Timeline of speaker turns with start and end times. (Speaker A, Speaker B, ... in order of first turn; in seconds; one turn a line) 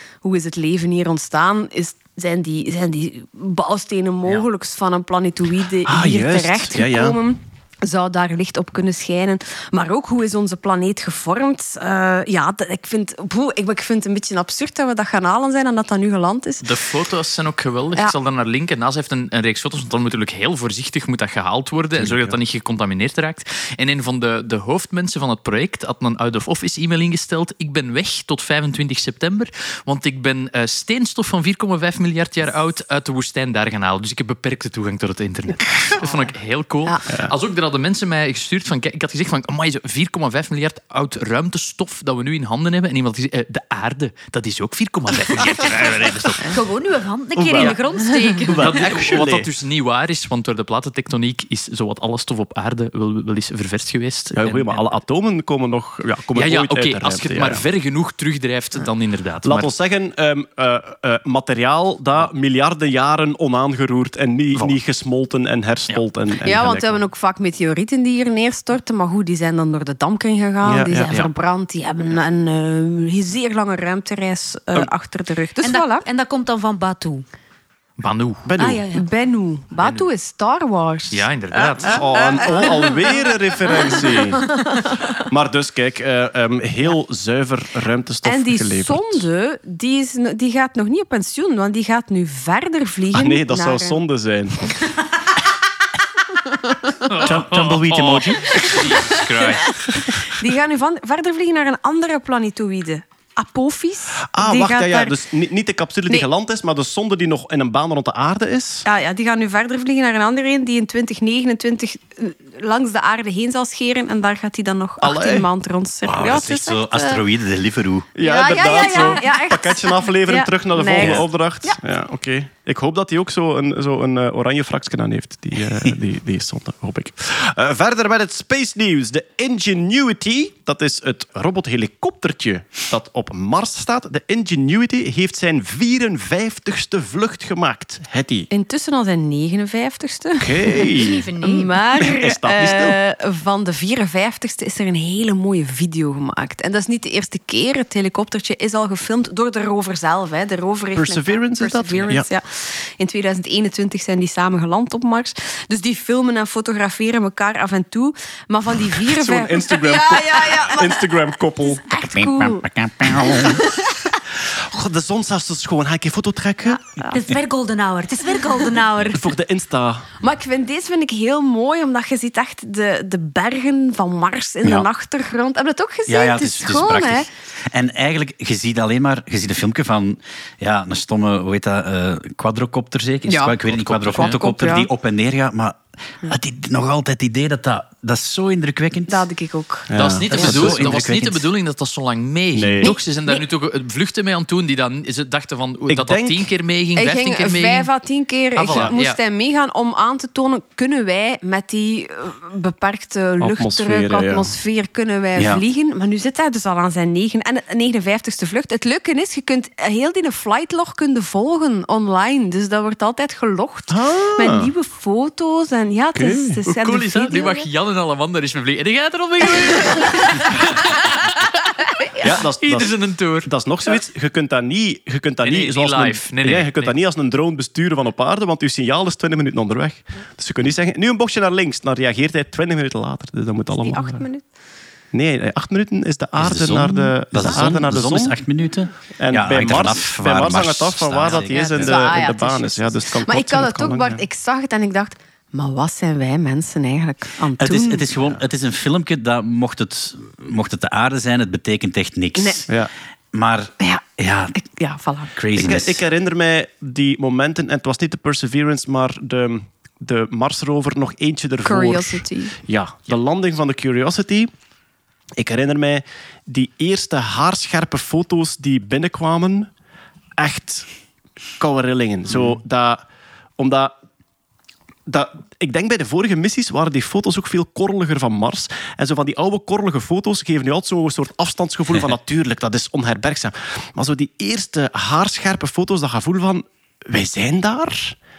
Speaker A: 0.2-16.6
Speaker B: 5.8-7.2
Speaker C: 16.6-46.4
Speaker B: 22.0-22.4
Speaker D: 46.4-48.8
Speaker B: 47.4-47.8
Speaker A: 48.0-48.3
Speaker B: 48.5-49.5
Speaker C: 48.6-55.0
Speaker B: 54.3-57.6
Speaker C: 56.3-59.7
Speaker B: 59.4-67.0
Speaker C: 64.5-64.8
Speaker A: 66.4-76.0
Speaker B: 70.6-71.1
Speaker D: 75.6-77.2
Speaker C: 78.0-78.5
Speaker B: 78.4-78.9
Speaker D: 78.6-79.0
Speaker A: 78.9-81.3
Speaker C: 79.8-80.0
Speaker C: 81.1-82.0
Speaker B: 81.7-84.4
Speaker A: 81.9-85.2
Speaker B: 85.3-89.2
Speaker A: 88.2-94.0
Speaker B: 93.1-94.9
Speaker C: 97.1-99.9
Speaker B: 97.1-99.2
Speaker A: 100.1-105.2
Speaker B: 104.3-108.8
Speaker A: 108.8-117.2
Speaker B: 115.0-115.5
Speaker E: 116.0-118.1
Speaker B: 118.1-138.5
Speaker A: 118.2-121.8
Speaker D: 118.6-119.2
Speaker E: 121.0-121.2
Speaker A: 138.5-140.9
Speaker B: 140.4-141.3
Speaker D: 140.9-141.9
Speaker A: 141.4-163.8
Speaker B: 142.0-143.0
Speaker B: 150.9-152.2
Speaker B: 159.0-161.8
Speaker E: 162.1-163.7
Speaker B: 164.3-166.8
Speaker A: 166.8-167.2
Speaker D: 167.1-169.3
Speaker B: 169.1-170.1
Speaker A: 170.2-177.3
Speaker E: 176.1-189.2
Speaker A: 183.3-184.9
Speaker C: 183.9-184.4
Speaker A: 189.1-190.5
Speaker B: 189.9-190.9
Speaker C: 190.0-197.9
Speaker E: 190.4-191.4
Speaker B: 192.5-192.9
Speaker A: 192.8-193.4
Speaker B: 195.9-196.5
Speaker A: 197.0-217.7
Speaker C: 198.6-199.2
Speaker B: 203.4-204.5
Speaker E: 205.3-205.6
Speaker B: 213.9-214.7
Speaker B: 216.1-216.6
Speaker C: 216.7-221.5
Speaker A: 220.2-220.5
Speaker B: 222.2-234.2
Speaker C: 222.6-223.5
Speaker C: 225.4-226.9
Speaker A: 233.8-234.4
Speaker B: 235.1-238.4
Speaker E: 236.4-242.1
Speaker B: 239.2-244.2
Speaker A: 241.5-248.1
Speaker E: 247.6-254.5
Speaker A: 252.4-252.6
Speaker A: 254.5-255.7
Speaker E: 255.3-256.0
Speaker B: 255.5-264.5
Speaker A: 261.6-262.6
Speaker B: 265.4-269.7
Speaker B: 270.4-270.9
Speaker B: 271.6-273.0
Speaker B: 273.6-273.9
Speaker B: 275.1-288.1